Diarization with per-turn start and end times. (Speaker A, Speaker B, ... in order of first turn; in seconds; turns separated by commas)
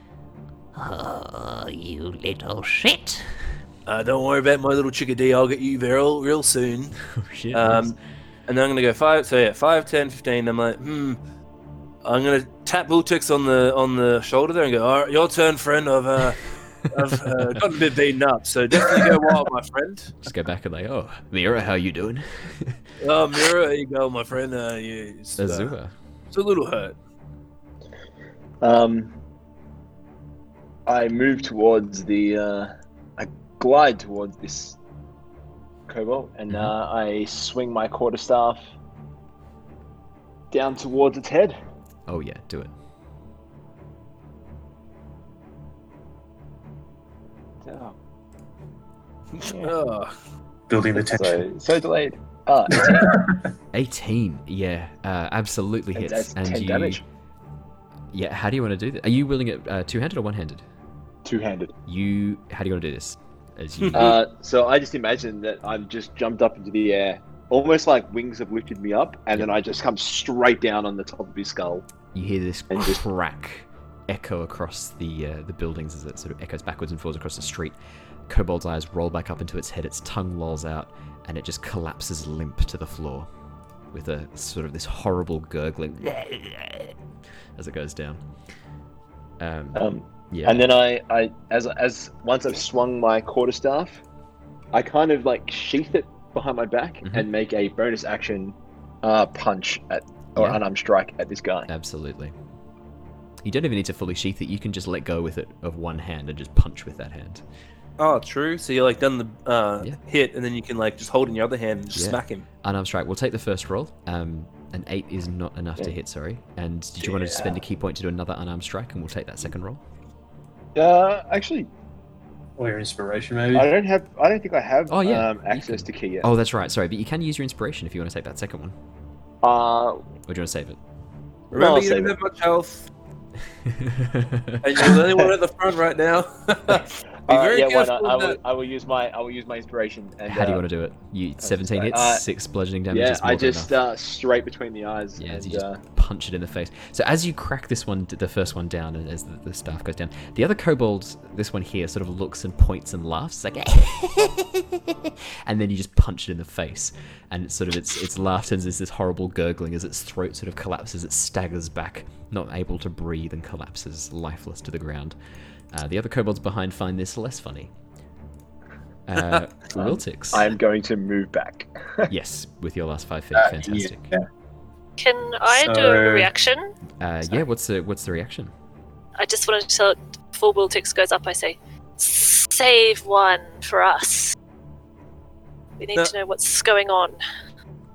Speaker A: 0.7-3.6, Speaker B: 3.9-8.0, Speaker A: 7.1-7.9, Speaker B: 8.5-11.2, Speaker B: 12.0-20.1, Speaker A: 20.2-22.8, Speaker B: 23.0-25.8, Speaker A: 25.4-25.9, Speaker B: 26.3-26.9, Speaker C: 28.6-29.1, Speaker C: 30.9-34.8, Speaker C: 35.9-38.6, Speaker C: 40.5-41.5, Speaker A: 42.1-42.7, Speaker C: 47.6-47.9, Speaker B: 49.3-50.1, Speaker C: 49.4-49.7, Speaker D: 50.7-51.4, Speaker C: 50.9-53.1, Speaker D: 52.8-53.5, Speaker A: 53.7-57.0, Speaker C: 55.9-57.0, Speaker A: 58.1-60.6, Speaker C: 61.2-61.7, Speaker A: 61.9-64.2, Speaker C: 63.9-71.8, Speaker A: 72.1-77.8, Speaker C: 72.7-73.0, Speaker A: 78.3-83.3, Speaker A: 83.9-86.9, Speaker A: 87.5-88.2, Speaker A: 89.4-90.6, Speaker C: 89.7-94.0, Speaker C: 94.7-101.7, Speaker A: 101.7-102.3, Speaker A: 103.4-107.4, Speaker B: 108.0-112.5, Speaker A: 111.9-119.8, Speaker C: 117.1-117.6, Speaker C: 120.7-121.7, Speaker D: 122.6-123.7, Speaker C: 123.5-126.3, Speaker A: 124.9-128.8, Speaker C: 129.4-130.0, Speaker A: 130.3-130.8, Speaker C: 131.5-132.2, Speaker B: 131.5-132.9, Speaker A: 133.6-134.8, Speaker B: 134.6-138.4, Speaker C: 137.3-140.6, Speaker A: 140.3-143.7, Speaker C: 141.4-142.2, Speaker C: 142.9-145.8, Speaker A: 145.2-165.2, Speaker A: 165.7-167.7, Speaker A: 169.1-170.5, Speaker C: 169.8-172.1, Speaker A: 172.1-174.1, Speaker D: 173.3-174.2, Speaker E: 175.0-176.7, Speaker D: 175.5-176.3, Speaker A: 177.0-178.5, Speaker E: 179.2-184.3, Speaker E: 185.8-187.2